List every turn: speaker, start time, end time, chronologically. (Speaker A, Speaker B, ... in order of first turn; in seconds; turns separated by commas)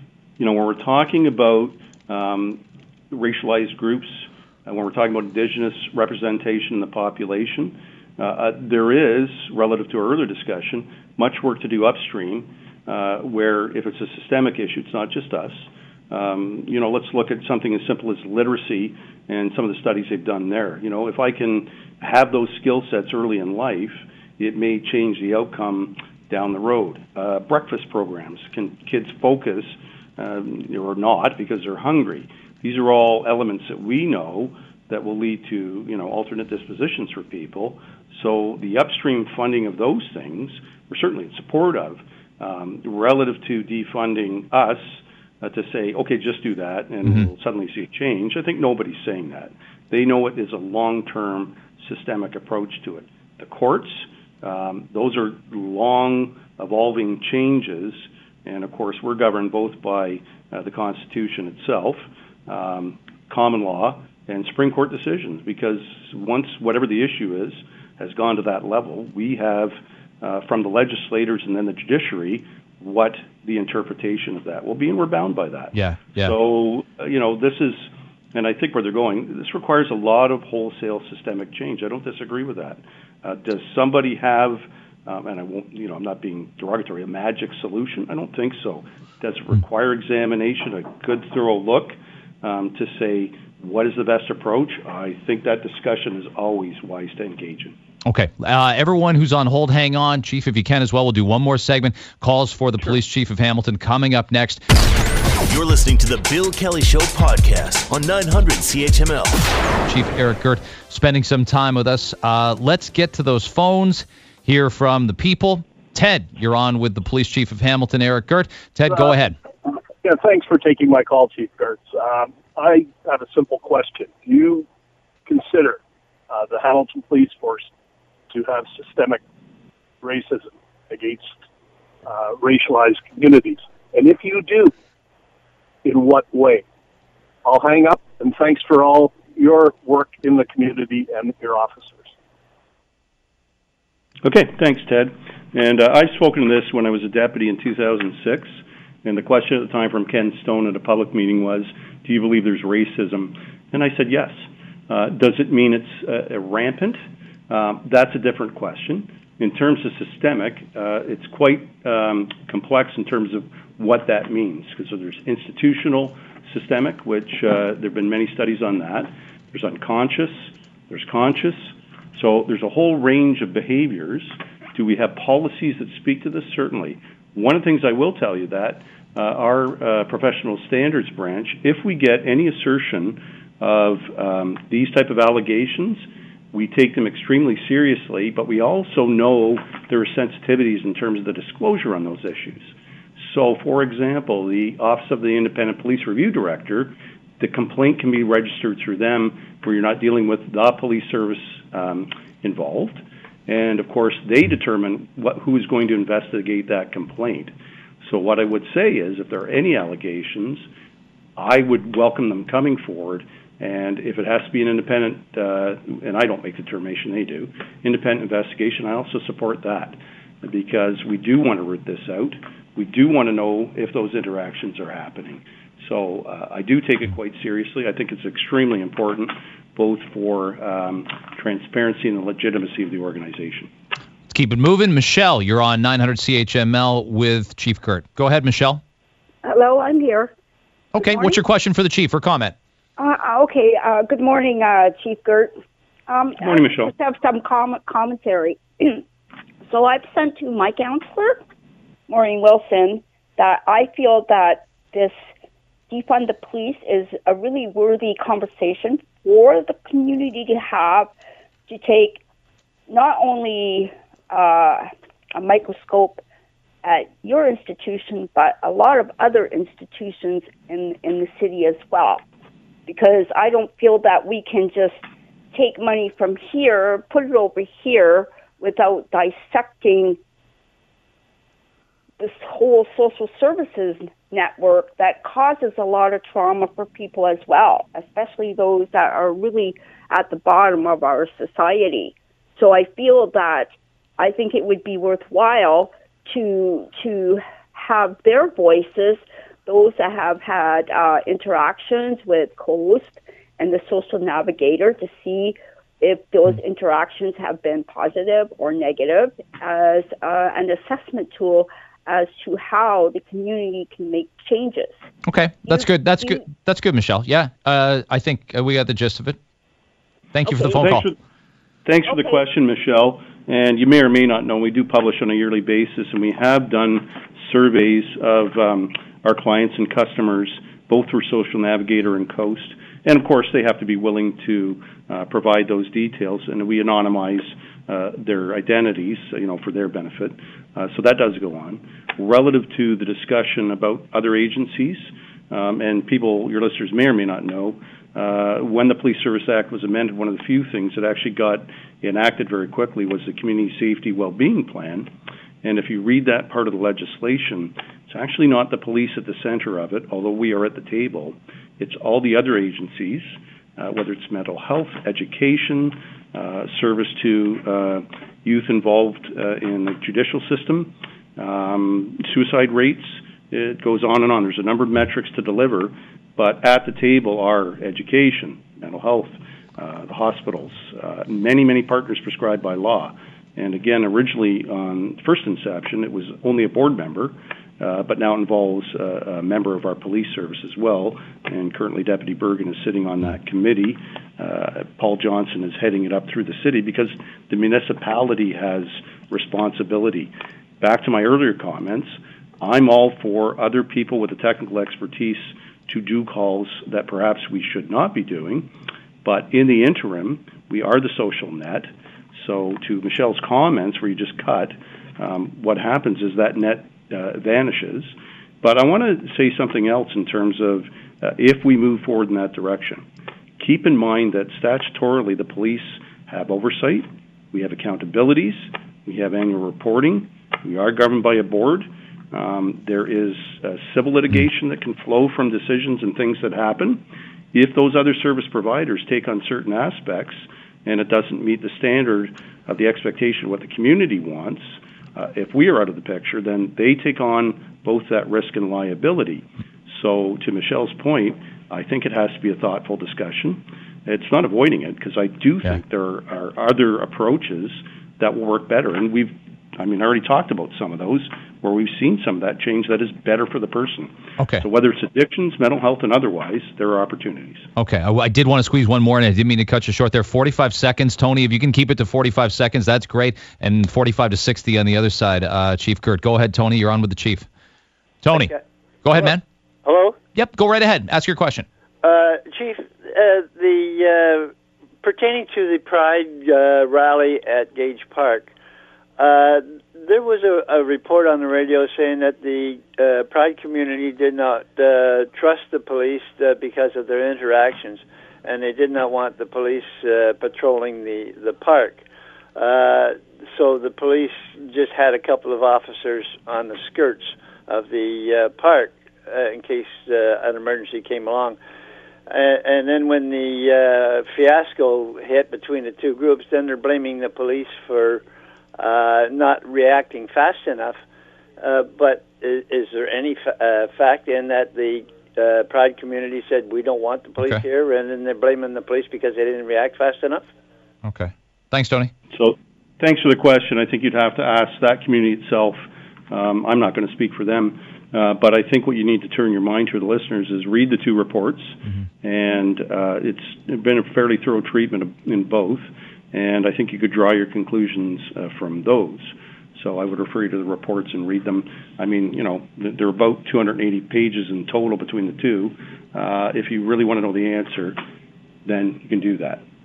Speaker A: 0.4-97.8, Speaker B: 75.7-76.3, Speaker B: 98.0-104.6, Speaker C: 105.5-109.4, Speaker B: 109.8-119.4, Speaker D: 119.7-124.7, Speaker D: 125.2-125.8, Speaker D: 126.3-127.7, Speaker D: 128.3-129.2, Speaker D: 130.0-131.3, Speaker D: 132.0-134.7, Speaker D: 135.8-136.6, Speaker D: 137.4-142.1, Speaker A: 144.2-210.7, Speaker A: 211.4-233.7, Speaker B: 234.3-238.8, Speaker E: 239.4-240.3, Speaker B: 240.9-242.5, Speaker E: 241.0-241.3, Speaker E: 243.0-245.5, Speaker E: 246.1-249.0, Speaker A: 246.4-246.9, Speaker E: 249.7-251.4, Speaker E: 252.1-255.2, Speaker E: 255.9-261.1, Speaker E: 261.7-262.2, Speaker E: 262.9-266.2, Speaker E: 266.8-272.2, Speaker E: 272.9-275.0, Speaker E: 275.5-280.2, Speaker E: 282.2-314.9, Speaker B: 315.2-319.4, Speaker E: 315.7-316.4, Speaker B: 320.3-321.1, Speaker A: 320.5-321.1, Speaker A: 321.9-355.1, Speaker E: 322.1-322.4, Speaker A: 355.6-408.7, Speaker A: 409.2-423.0, Speaker A: 423.6-467.7, Speaker B: 464.4-464.6, Speaker B: 467.8-477.5, Speaker B: 478.2-479.4, Speaker F: 478.3-478.6, Speaker F: 479.8-480.2, Speaker B: 480.3-481.6, Speaker F: 482.0-488.5, Speaker F: 489.2-502.0, Speaker F: 502.6-511.6, Speaker F: 512.3-518.2, Speaker F: 518.8-521.0, Speaker F: 521.6-530.5, Speaker B: 531.0-532.1, Speaker A: 532.3-558.0, Speaker A: 558.6-559.6